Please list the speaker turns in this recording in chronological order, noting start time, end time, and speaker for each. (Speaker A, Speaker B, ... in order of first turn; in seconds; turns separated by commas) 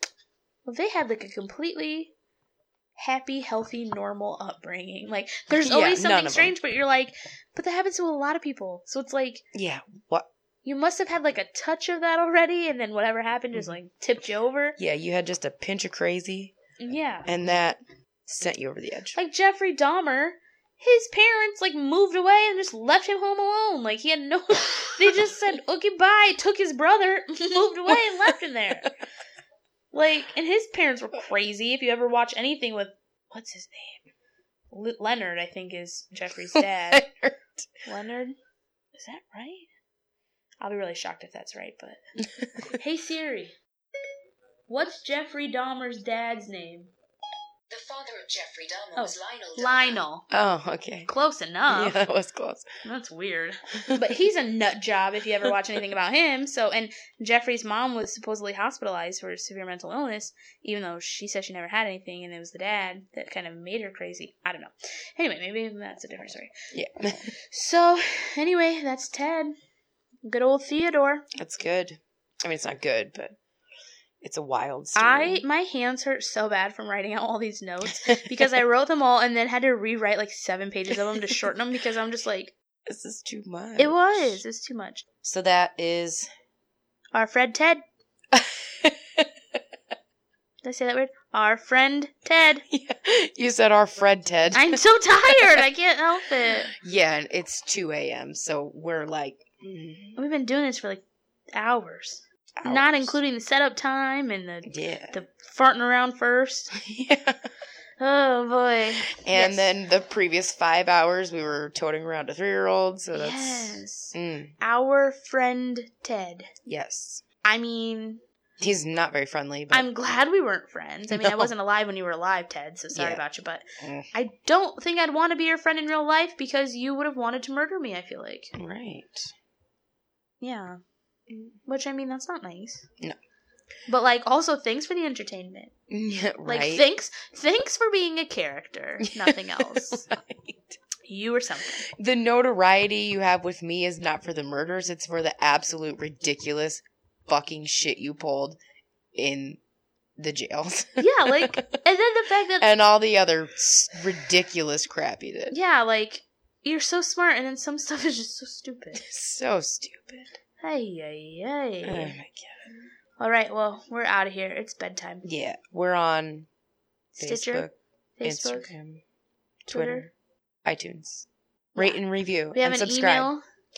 Speaker A: 0.7-2.1, Speaker A: 3.0-9.4, Speaker B: 5.5-6.5, Speaker B: 9.5-10.3, Speaker A: 10.6-14.8, Speaker B: 14.8-16.5, Speaker A: 16.8-17.3, Speaker B: 17.2-19.2, Speaker A: 19.1-28.9, Speaker A: 29.9-34.0, Speaker A: 34.7-37.0, Speaker B: 36.5-37.6, Speaker A: 37.9-38.4, Speaker A: 38.9-39.7, Speaker A: 40.6-42.0, Speaker B: 42.4-42.7, Speaker A: 42.7-43.5, Speaker A: 44.7-46.9, Speaker C: 47.7-50.0, Speaker A: 49.0-50.3, Speaker B: 50.3-51.1, Speaker A: 51.1-52.0, Speaker B: 51.7-52.7, Speaker A: 52.8-66.5, Speaker B: 53.8-54.0, Speaker B: 66.7-67.3, Speaker A: 67.1-69.5, Speaker A: 70.2-71.3, Speaker B: 71.4-73.3, Speaker B: 74.2-75.4, Speaker A: 75.0-82.5, Speaker B: 78.0-78.4, Speaker B: 82.9-84.4, Speaker A: 83.8-85.0, Speaker B: 85.2-86.3, Speaker A: 87.1-87.8, Speaker B: 88.3-89.3, Speaker A: 90.6-92.7, Speaker B: 92.7-95.6, Speaker A: 94.5-96.7, Speaker B: 96.7-100.2, Speaker A: 100.2-106.7, Speaker B: 102.6-103.2, Speaker B: 104.7-105.2, Speaker B: 106.7-107.5, Speaker A: 108.0-109.7, Speaker B: 109.2-114.5, Speaker A: 113.1-116.5, Speaker B: 116.7-117.2, Speaker A: 117.4-118.2, Speaker B: 118.6-119.9, Speaker A: 119.7-128.5, Speaker B: 121.1-121.5, Speaker B: 122.9-123.2, Speaker B: 123.8-124.1, Speaker B: 128.5-129.3, Speaker A: 130.4-130.8, Speaker B: 131.3-131.6, Speaker A: 131.7-132.9, Speaker A: 133.9-135.7, Speaker B: 135.9-136.8, Speaker A: 136.4-140.0, Speaker B: 139.0-140.8, Speaker A: 141.1-141.9, Speaker B: 141.9-148.6, Speaker B: 149.1-149.6, Speaker B: 150.2-151.8, Speaker A: 151.0-152.7, Speaker B: 152.6-155.6, Speaker A: 155.5-159.0, Speaker B: 158.9-160.4, Speaker A: 160.6-162.2, Speaker B: 161.8-162.6, Speaker A: 163.2-165.2, Speaker B: 165.2-166.5, Speaker A: 167.2-167.7, Speaker B: 167.2-169.0, Speaker A: 168.2-168.7, Speaker A: 169.7-170.1, Speaker B: 169.7-170.1, Speaker B: 170.7-173.3, Speaker A: 172.5-173.4